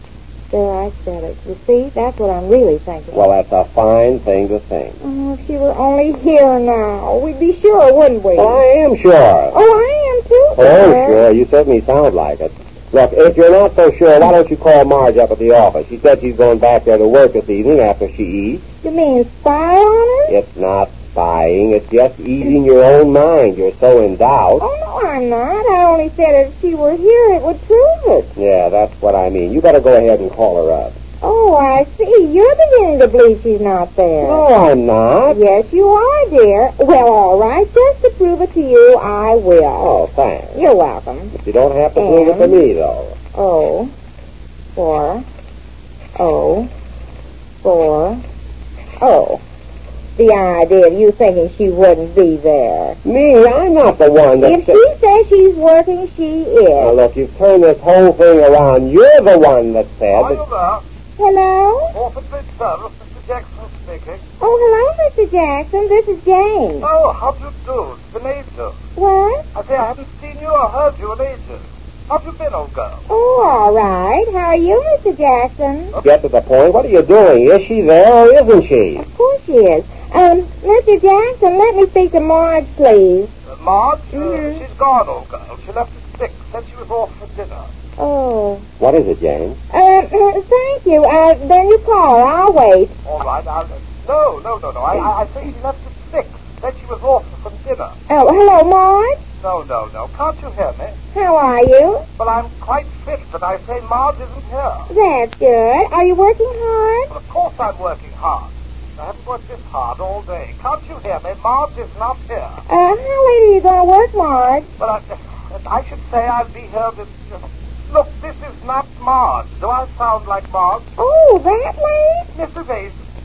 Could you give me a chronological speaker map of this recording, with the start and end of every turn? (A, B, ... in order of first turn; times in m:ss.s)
0:00.5-0:03.2 A
0:03.1-0:05.0 B
0:05.0-0:08.6 A
0:08.3-0:09.6 B
0:09.5-0:11.2 A
0:10.5-0:18.6 B
0:18.8-0:20.4 A
0:20.3-0:24.6 B
0:24.6-0:28.3 A
0:28.4-0:31.0 B
0:31.2-0:34.4 A
0:34.2-0:35.4 B
0:35.3-0:40.0 A
0:39.8-0:40.6 B
0:40.5-0:41.3 A
0:41.3-0:43.2 B
0:42.0-0:42.6 A
0:43.2-0:43.9 A
0:44.8-0:45.2 A
0:46.2-0:46.7 A
0:47.6-0:48.2 A
0:49.0-0:49.4 A
0:50.2-0:53.0 A
0:53.0-0:54.8 B
0:54.4-0:57.0 A
0:56.8-1:00.4 B
1:00.1-1:00.8 C
1:01.2-1:02.0 A
1:01.9-1:04.2 C
1:04.4-1:06.9 A
1:06.8-1:08.7 C
1:09.0-1:09.4 A
1:09.5-1:13.0 C
1:13.1-1:15.9 A
1:16.0-1:19.0 B
1:19.0-1:23.3 A
1:23.5-1:27.7 C
1:24.1-1:24.6 A
1:28.0-1:28.6 A
1:28.8-1:29.6 B
1:29.7-1:32.9 A
1:33.0-1:37.9 C
1:38.1-1:39.2 A
1:39.4-1:41.0 C
1:41.1-1:42.0 A
1:42.2-1:44.9 C
1:44.9-1:47.1 A
1:47.1-1:52.6 C
1:52.7-1:54.7 A
1:54.8-1:57.4 C
1:57.9-2:00.9 C
2:01.0-2:02.3 A
2:02.3-2:03.0 C